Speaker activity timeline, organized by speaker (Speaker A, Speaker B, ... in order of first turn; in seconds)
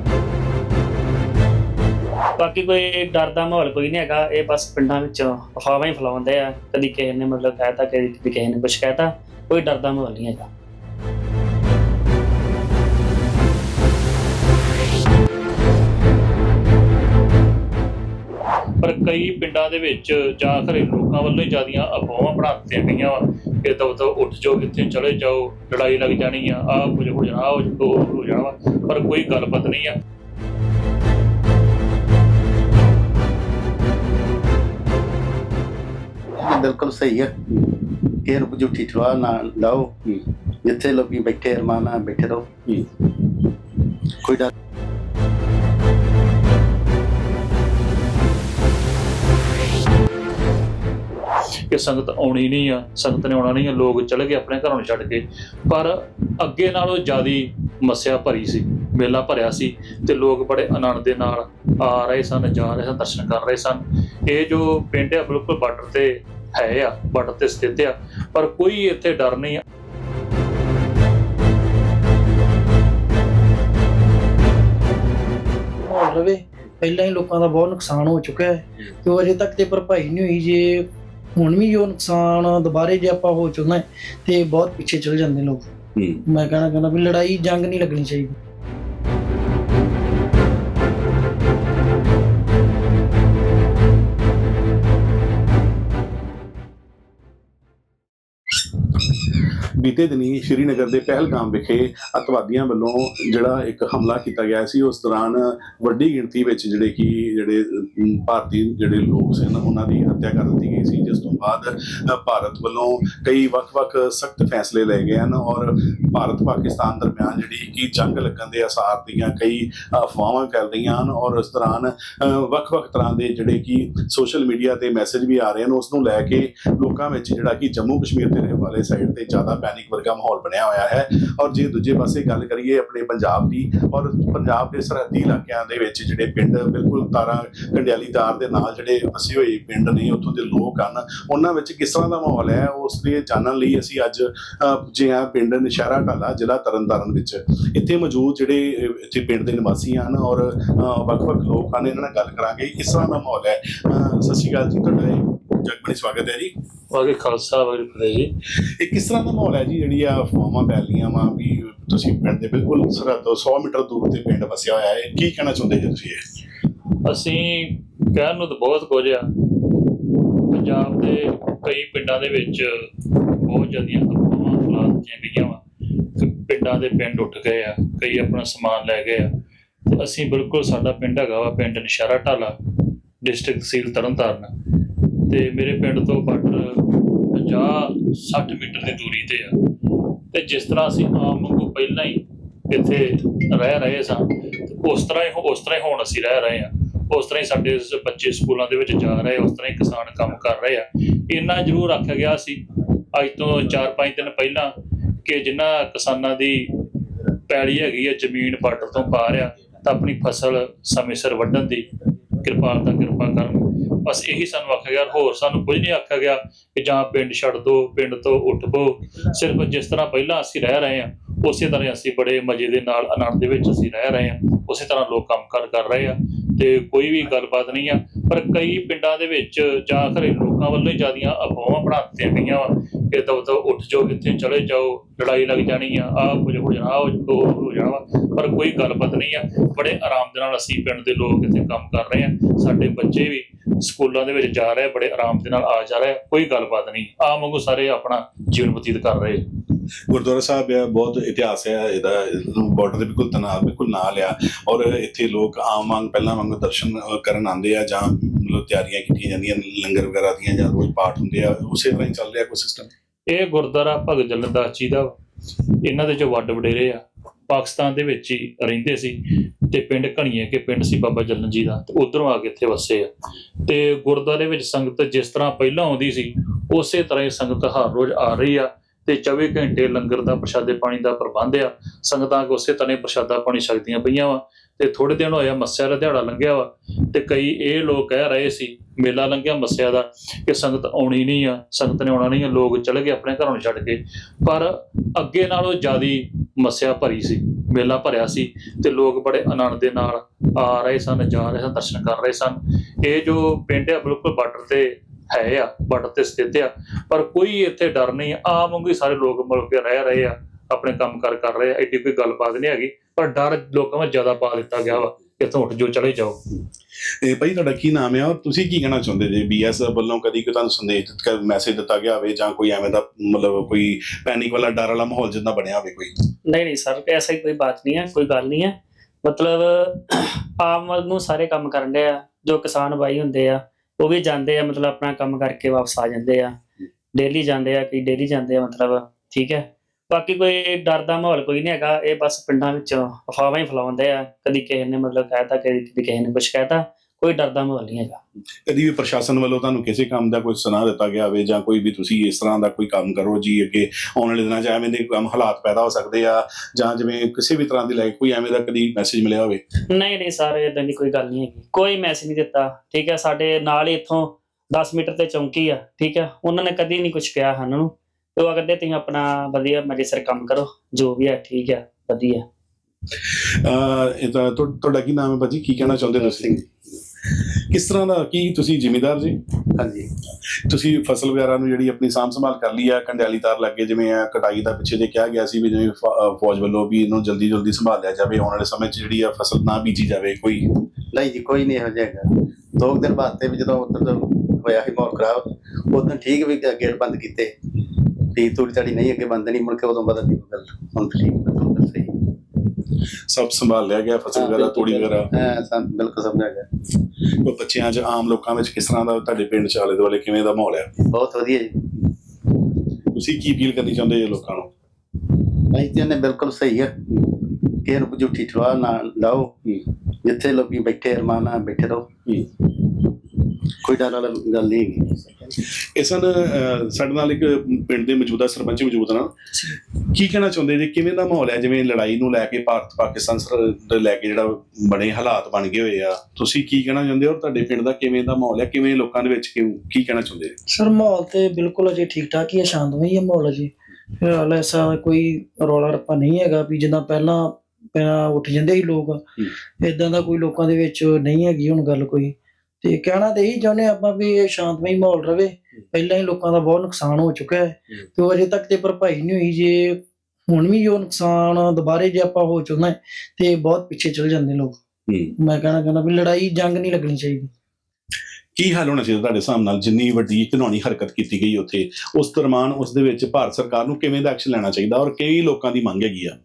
Speaker A: 2.4-10.5, 326.4-336.6, 337.1-348.2, 359.9-372.4
Speaker B: 18.8-29.9, 51.7-69.6, 156.9-158.3, 167.0-169.3, 170.5-175.6, 176.2-179.3, 179.8-182.6, 183.2-184.5, 185.2-189.6, 190.3-202.6, 203.1-206.8, 207.4-211.8, 212.4-249.4, 263.3-265.1, 265.8-269.2, 269.7-273.1, 273.6-316.4
Speaker C: 36.4-42.6, 44.2-44.5, 376.0-376.6, 379.8-380.1, 391.1-397.5, 398.3-402.2, 404.3-406.7, 411.1-411.8, 415.7-417.3, 417.8-419.5, 420.2-422.1, 423.8-425.4
Speaker D: 42.7-43.0, 86.0-86.2, 99.8-156.5, 158.6-166.3, 250.1-262.9, 317.2-326.1, 348.6-359.6, 373.3-376.6, 377.3-379.4, 380.6-390.7, 403.3-405.3, 407.4-410.9, 413.1-414.7, 425.8-429.3, 430.1-440.5, 465.1-465.3, 468.6-476.3
Speaker E: 75.8-80.8, 81.4-85.7, 86.2-88.3, 440.7-449.2, 449.8-464.8, 465.4-467.5